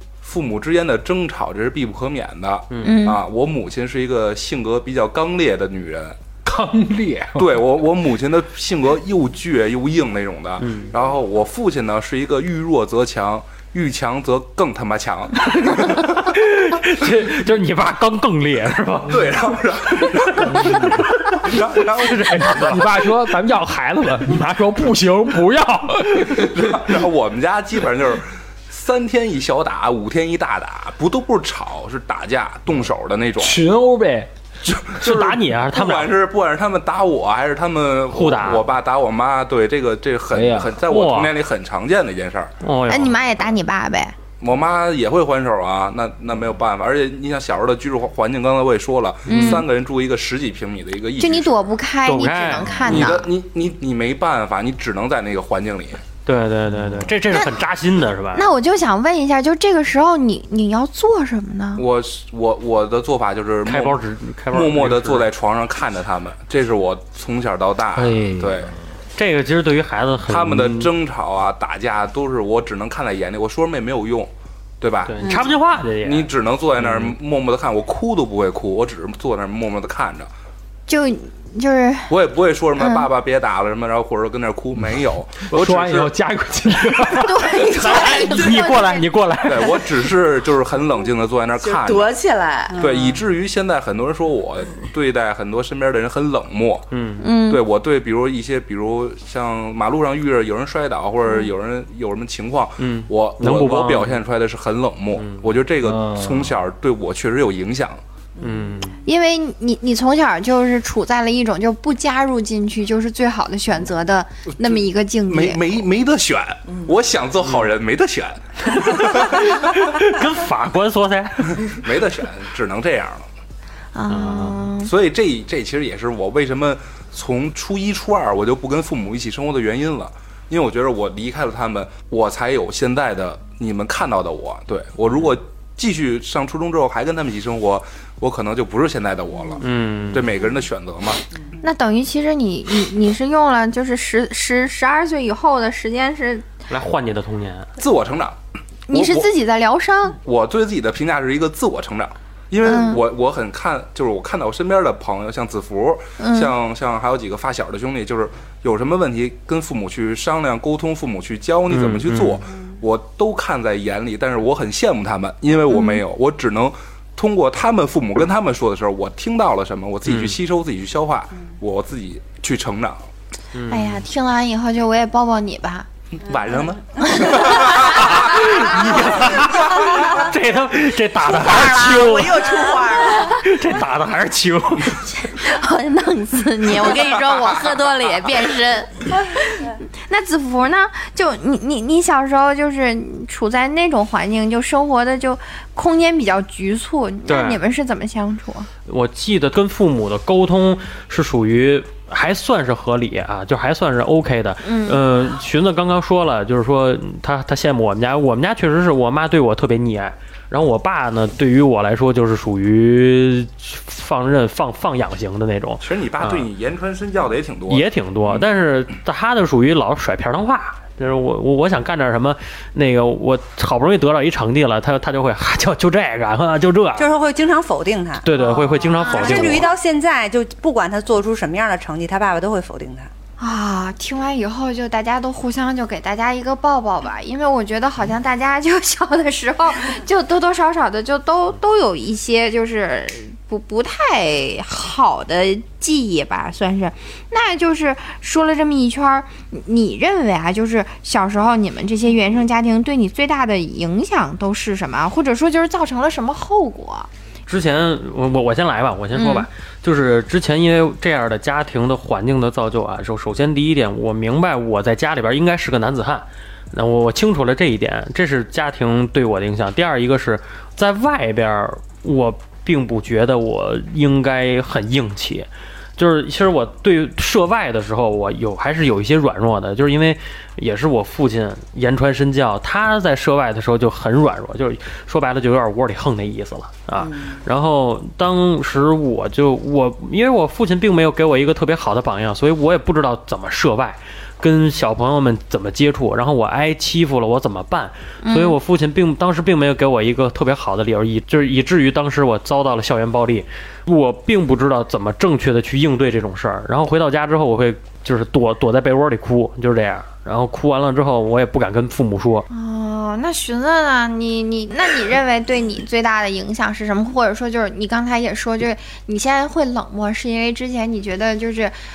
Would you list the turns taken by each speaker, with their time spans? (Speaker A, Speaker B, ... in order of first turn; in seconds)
Speaker A: 0.2-6.2, 7.4-16.1, 19.1-22.8, 26.2-33.6, 34.6-42.5, 44.4-51.7, 52.8-56.0, 61.8-68.7, 70.3-80.3, 82.1-86.1, 89.4-92.2, 92.8-108.0, 114.5-119.9, 121.8-123.3, 124.8-141.2, 147.8-148.4, 148.9-149.3, 150.2-173.0, 176.2-180.3, 215.8-217.9
Speaker B: 2.7-3.0, 10.6-10.9, 15.6-19.4, 19.9-22.8, 35.0-36.2, 38.1-38.6, 40.9-41.4, 42.6-43.2, 49.3-49.6, 52.0-53.2, 56.3-58.5, 63.7-65.3, 69.2-70.9, 75.1-77.2, 87.7-90.0, 96.9-97.2, 102.8-104.2, 105.2-105.5, 108.4-109.0, 118.7-121.6, 124.1-124.6, 139.6-140.3, 146.7-147.7, 161.7-162.4, 170.1-170.3, 173.5-174.1, 177.9-185.2, 197.3-197.6, 198.9-216.5, 217.7-227.1, 228.2-229.7, 257.5-312.5
Speaker C: 2.8-3.2, 42.9-44.1, 49.3-49.6, 51.2-53.3, 57.3-57.6, 58.4-61.8, 80.9-82.2, 82.8-83.1, 87.2-89.1, 97.2-97.6, 109.1-115.8, 123.9-124.9, 141.6-146.5, 148.9-150.2, 152.6-153.0, 156.2-156.5, 165.7-166.0, 173.7-175.9, 177.0-178.7, 185.3-198.7, 204.6-205.0, 228.3-229.7, 233.4-257.1, 259.1-259.5, 298.2-298.6, 312.5-321.7
Speaker D: 6.5-7.6, 20.5-21.0, 22.6-26.5, 33.4-34.3, 40.3-40.8, 68.0-68.8, 85.5-87.5, 105.8-106.6
Speaker E: 91.6-93.1, 108.4-109.0, 116.7-116.9, 181.3-183.4, 287.0-287.4
Speaker F: 227.0-228.3, 229.0-233.1